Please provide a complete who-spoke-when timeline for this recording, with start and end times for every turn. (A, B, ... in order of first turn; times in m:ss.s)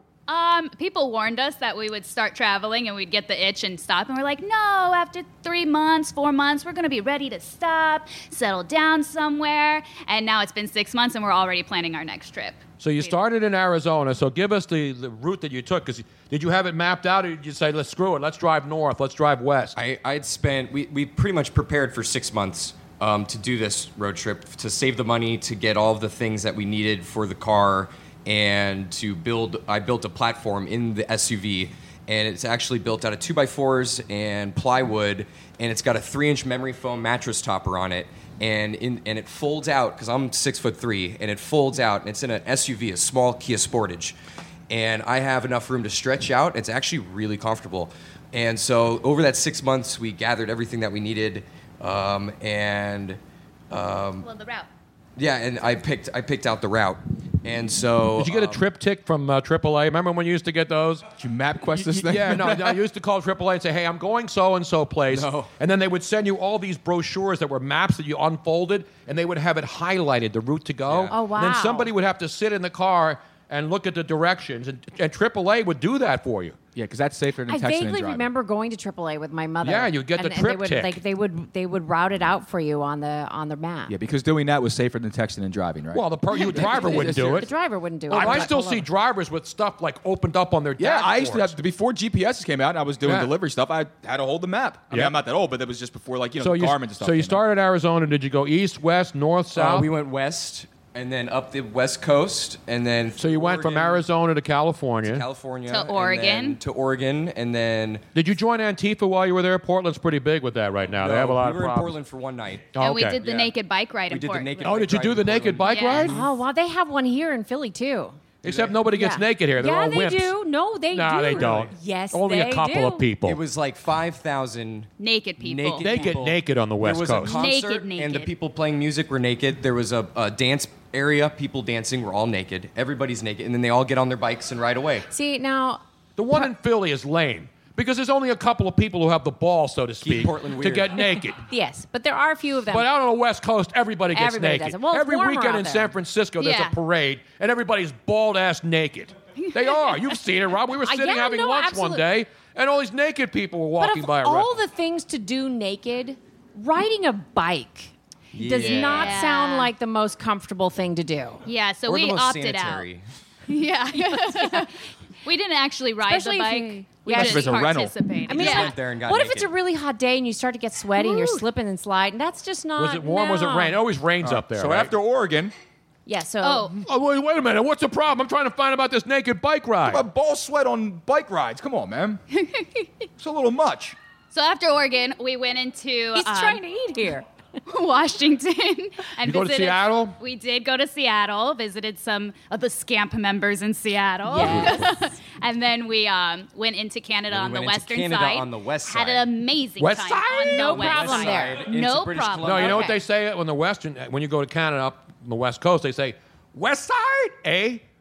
0:00.3-0:13.2 A
0:12.8-0:19.8 B
0:19.8-0:44.2 C
0:44.7-0:53.2 C
0:53.7-0:54.3 C
0:54.2-0:54.7 A
0:55.2-0:58.6 C
0:58.2-1:01.1 B
1:01.2-1:02.8 D
1:01.7-1:16.6 B
1:05.1-1:05.5 C
1:10.9-1:11.2 C
1:11.1-1:11.9 E
1:16.8-1:18.3 D
1:17.5-1:23.9 E
1:19.6-1:21.0 B
1:23.9-1:27.5 D
1:25.9-1:27.5 B
1:26.3-1:28.9 E
1:28.1-1:31.5 B
1:28.1-1:28.5 D
1:30.8-1:37.4 D
1:33.0-1:33.3 B
1:36.4-1:39.9 B
1:39.5-1:44.0 C
1:43.2-1:45.2 B
1:45.0-1:48.0 C
1:45.7-1:46.6 A
1:48.1-1:52.0 B
1:51.0-1:53.6 C
1:52.8-1:53.2 B
1:52.8-1:54.8 A
1:54.1-1:56.4 C
1:54.6-1:56.2 B
1:55.7-1:56.1 A
1:56.0-1:58.2 E
1:58.4-1:58.8 C
1:58.4-2:00.3 B
1:58.9-2:03.0 E
2:00.9-2:03.4 B
2:01.4-2:01.7 C
2:03.2-2:15.1 C
2:05.0-2:05.9 A
2:05.8-2:07.4 B
2:07.3-2:08.3 A
2:15.1-2:16.5 E
2:16.2-2:21.4 B
2:20.0-2:21.0 C
2:21.5-2:22.9 E
2:22.7-2:34.5 B
2:24.1-2:25.9 E
2:26.4-2:26.8 A
2:30.9-2:32.0 E
2:33.8-2:41.4 E
2:38.3-2:39.2 C
2:38.6-2:39.7 A
2:41.5-2:42.9 A
2:41.9-2:43.0 C
2:43.5-2:48.8 A
2:44.0-2:44.7 E
2:46.0-2:47.6 E
2:47.1-2:48.0 D
2:48.2-2:53.8 E
2:48.3-2:49.5 C
2:51.0-2:51.5 A
2:52.8-2:54.9 B
2:54.2-2:55.5 D
2:56.1-2:56.8 E
2:56.4-2:56.8 A
2:56.9-3:00.1 B
2:59.8-3:02.2 D
3:02.4-3:02.9 A
3:03.2-3:04.0 D
3:04.3-3:06.6 A
3:06.1-3:07.3 E
3:07.7-3:22.9 A
3:09.2-3:10.2 B
3:14.3-3:14.9 E
3:14.4-3:14.9 B
3:17.3-3:19.3 C
3:19.8-3:20.7 B
3:20.4-3:21.7 E
3:20.6-3:23.0 C
3:22.4-3:27.8 B